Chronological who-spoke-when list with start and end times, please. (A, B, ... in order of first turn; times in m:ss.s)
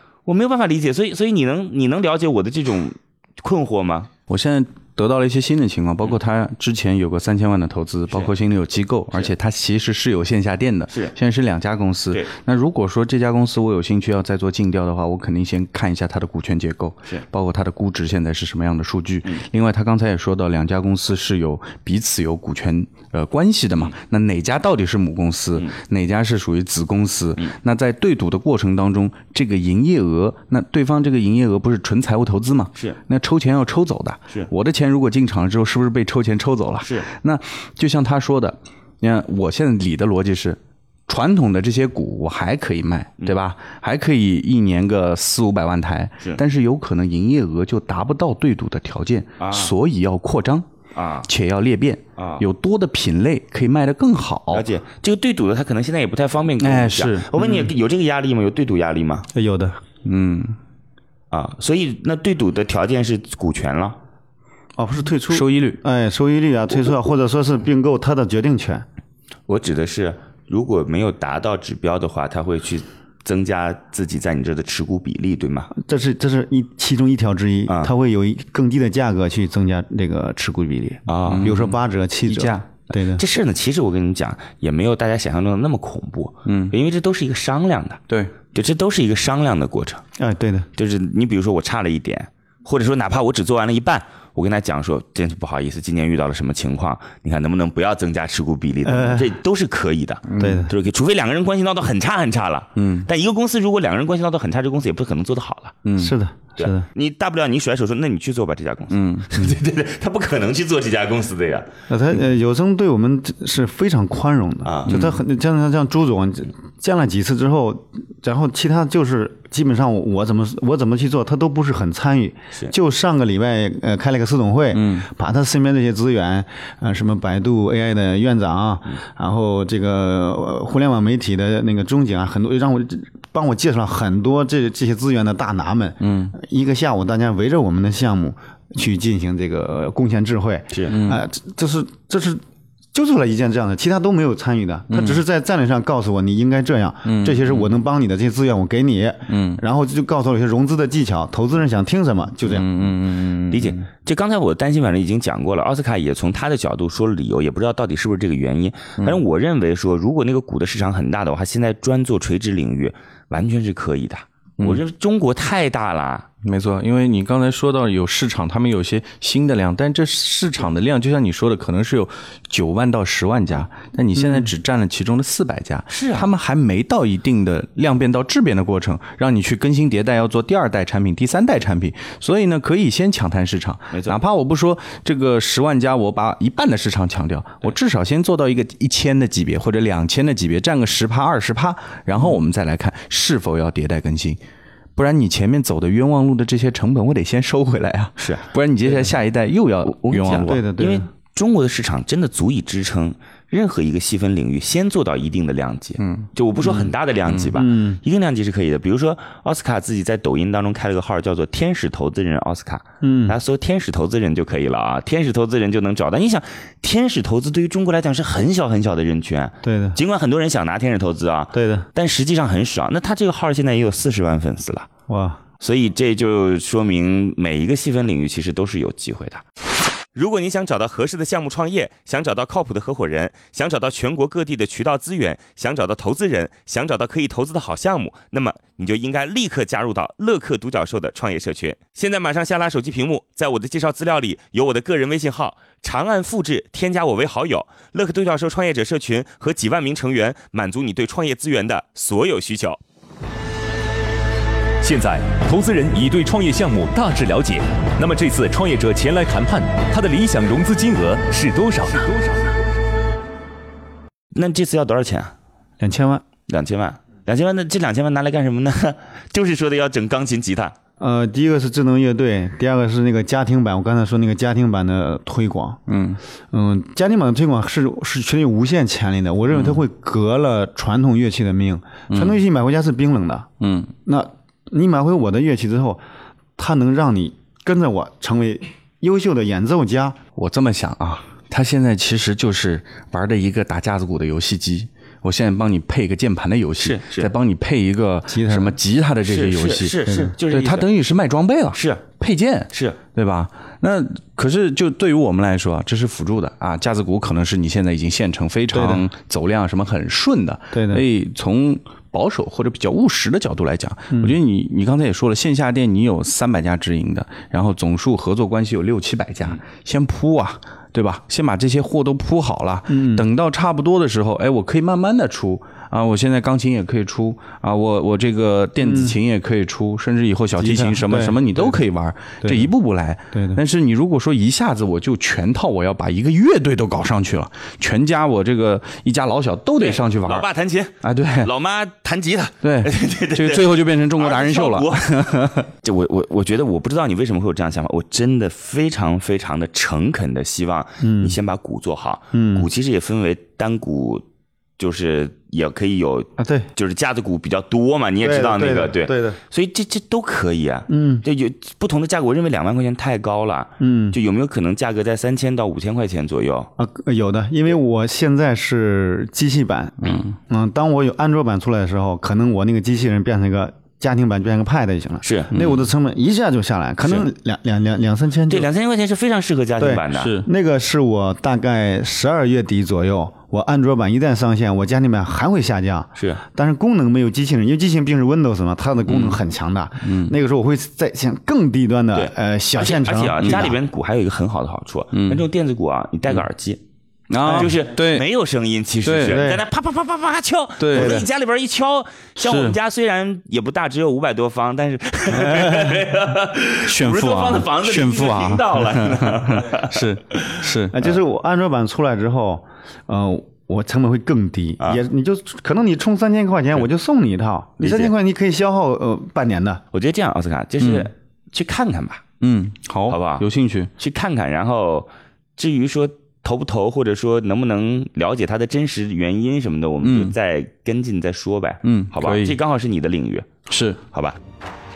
0:00.3-0:04.1 A
0:04.3-0:50.7 B
0:36.8-0:37.1 A
0:49.4-0:49.7 A
0:51.0-0:51.3 A
0:51.2-0:54.7 B
0:52.2-0:52.4 A
0:54.5-0:59.3 A
0:56.6-0:57.3 B
0:57.4-0:57.7 C
0:59.3-0:59.8 C
1:00.0-1:00.6 B
1:01.3-1:04.0 A
1:04.8-1:08.8 C
1:05.3-1:05.8 B
1:09.5-1:15.7 A
1:15.7-1:23.2 C
1:21.1-1:21.6 A
1:21.3-1:22.6 B
1:23.2-1:28.0 A
1:26.5-1:26.8 B
1:28.5-1:30.0 A
1:30.2-1:30.7 C
1:30.8-1:45.8 A
1:38.8-1:39.3 C
1:40.3-1:40.7 B
1:40.4-1:40.7 C
1:42.8-1:43.1 B
1:45.8-1:46.1 B
1:46.0-1:46.9 C
1:46.6-1:51.7 A
1:48.9-1:49.3 B
1:51.9-2:22.4 C
1:54.6-1:54.9 A
1:54.9-1:55.2 B
2:04.7-2:05.1 B
2:16.0-2:16.3 B
2:20.7-2:21.0 A
2:20.9-2:21.2 B
2:22.9-2:32.7 C
2:24.9-2:25.2 B
2:27.1-2:27.7 B
2:29.3-2:29.6 B
2:32.4-2:33.8 B
2:33.5-2:46.3 A
2:46.4-3:14.4 B
2:54.2-2:54.5 C
2:55.9-2:56.3 A
3:03.9-3:04.2 A
3:15.0-3:20.6 B
3:19.9-3:44.9 A
3:20.4-3:21.1 C
3:26.0-3:26.3 B
3:27.6-3:28.0 C
3:33.0-3:33.4 C
3:39.6-3:40.0 C
3:41.5-3:41.9 C
3:45.1-3:45.4 C
3:45.6-3:49.4 A
3:50.2-4:12.8 A
4:14.8-4:22.4 D
4:24.3-4:25.3 A
4:25.8-4:26.2 C
4:26.5-4:30.8 A
4:31.0-4:35.8 C
4:35.9-4:36.2 B
4:36.5-4:43.5 C
4:42.1-4:42.4 B
4:43.6-4:43.9 B
4:44.1-4:46.0 C
4:46.6-4:50.2 C
4:50.4-5:00.0 B
4:56.8-4:57.3 A
4:58.3-4:58.8 C
4:59.2-5:00.9 A
5:00.1-5:00.3 C
5:00.5-5:40.5 B
5:01.7-5:02.0 A
5:02.7-5:03.0 A
5:08.7-5:09.1 C
5:10.7-5:11.0 C
5:22.9-5:23.3 C
5:28.8-5:29.2 C
5:30.6-5:31.8 C
5:32.4-5:32.7 C
5:33.3-5:33.6 C
5:39.8-5:45.3 A
5:41.0-5:41.5 B
5:42.6-5:45.7 B
5:45.8-5:54.2 A
5:51.0-5:51.4 C
5:52.3-5:52.7 C
5:54.8-6:06.7 A
5:56.4-5:56.7 C
5:58.2-5:59.4 C
6:00.9-6:01.2 C
6:03.8-6:04.2 C
6:06.8-6:18.7 C
6:10.0-6:10.3 B
6:15.2-6:15.5 A
6:15.5-6:15.8 B
6:17.0-6:17.3 A
6:18.5-6:20.4 A
6:19.8-6:33.8 C
6:20.1-6:20.5 B
6:29.1-6:29.4 B
6:30.0-6:30.3 B
6:32.1-6:36.8 A
6:33.4-6:33.7 B
6:35.1-6:35.4 B
6:37.3-6:38.2 B
6:37.4-6:50.5 A
6:37.4-6:37.7 C
6:39.0-6:39.4 B
6:39.2-6:39.6 C
6:40.8-6:41.3 B
6:40.9-6:41.2 C
6:42.4-6:42.8 B
6:45.4-6:46.0 C
6:46.8-6:51.0 B
6:50.9-6:59.8 C
6:57.8-6:58.1 A
6:59.9-7:02.2 A
7:00.8-7:01.1 B
7:02.4-7:03.9 B
7:03.1-7:03.4 A
7:04.0-7:13.5 A
7:10.0-7:10.3 B
7:11.8-7:12.6 B
7:13.7-7:14.0 B